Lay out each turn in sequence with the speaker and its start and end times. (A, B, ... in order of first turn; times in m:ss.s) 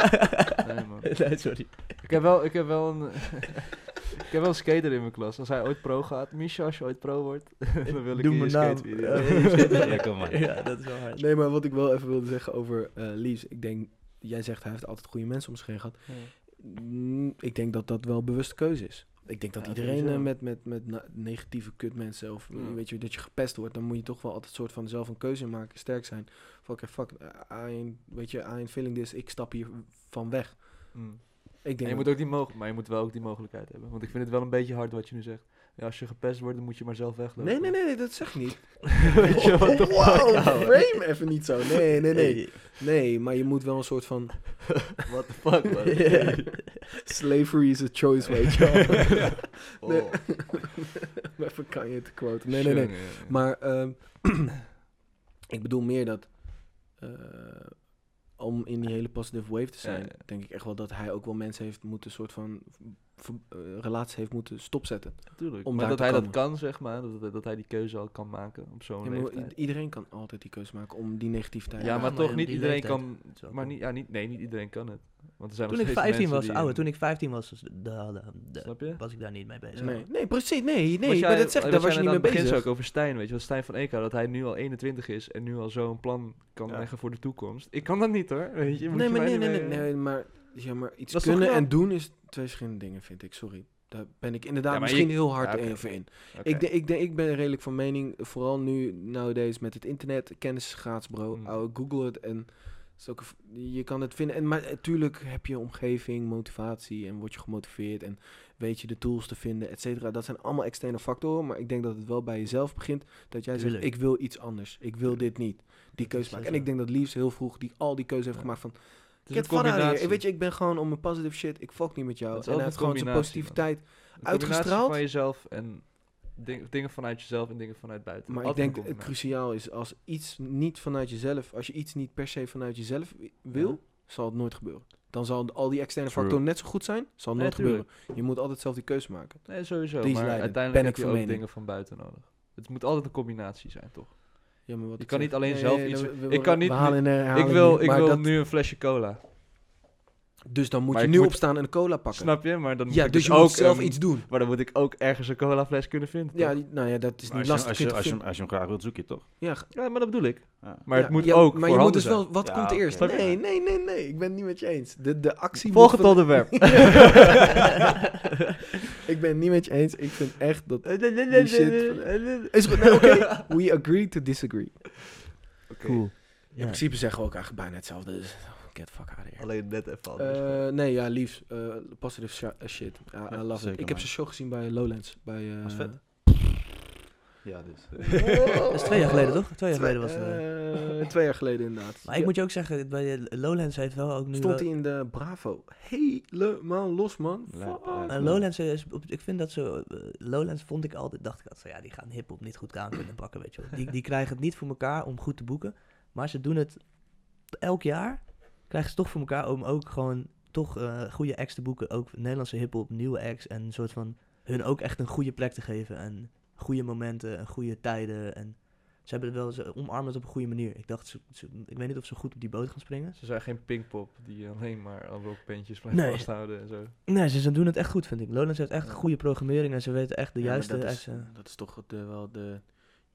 0:00.6-0:09.9 A
0:01.0-0:02.2 B
0:07.9-0:11.2 B
0:09.8-0:10.4 C
0:11.2-0:32.1 D
0:16.1-0:16.3 A
0:19.6-0:20.3 A
0:22.5-0:22.8 A
0:30.9-0:38.2 A
0:37.4-0:45.0 D
0:39.0-0:41.2 A
0:42.1-0:42.6 B
0:44.9-0:46.6 A
0:45.8-0:46.2 D
0:45.9-0:46.7 B
0:46.8-0:54.6 D
0:49.0-0:50.7 A
0:52.5-0:53.5 A
0:55.5-1:06.4 D
0:59.8-1:00.2 A
1:05.3-1:09.6 A
1:09.0-1:12.4 D
1:11.8-1:16.8 A
1:11.8-1:13.8 B
1:15.7-1:20.1 B
1:18.6-1:19.0 A
1:19.8-1:22.7 D
1:21.0-1:29.9 A
1:28.9-2:05.0 D
1:31.1-1:31.7 A
1:34.7-1:36.7 A
1:53.5-1:53.9 B
1:56.0-1:56.7 B
1:58.4-2:00.2 A
2:02.3-2:09.1 A
2:08.3-2:21.4 D
2:16.1-2:16.4 C
2:17.4-2:17.9 A
2:19.5-2:29.2 A
2:24.7-2:28.3 D
2:30.5-2:34.3 D
2:30.9-2:36.6 A
2:36.3-2:38.2 D
2:37.3-2:39.4 C
2:39.4-2:39.7 D
2:39.7-2:43.2 A
2:40.6-2:41.0 C
2:40.9-2:47.4 D
2:42.4-2:43.4 C
2:45.7-2:47.3 A
2:49.1-2:55.0 D
2:50.8-2:53.4 A
2:55.7-2:56.1 A
2:55.8-2:56.8 B
2:56.5-3:06.2 D
2:59.4-3:00.7 A
3:03.5-3:04.1 C
3:05.6-3:06.5 C
3:07.4-3:08.4 C
3:08.2-3:12.3 D
3:08.7-3:10.5 B
3:12.0-3:14.7 B
3:14.3-3:18.3 D
3:17.5-3:18.5 C
3:18.1-3:43.2 B
3:43.2-3:46.9 A
3:45.9-3:51.3 B
3:50.4-3:52.7 D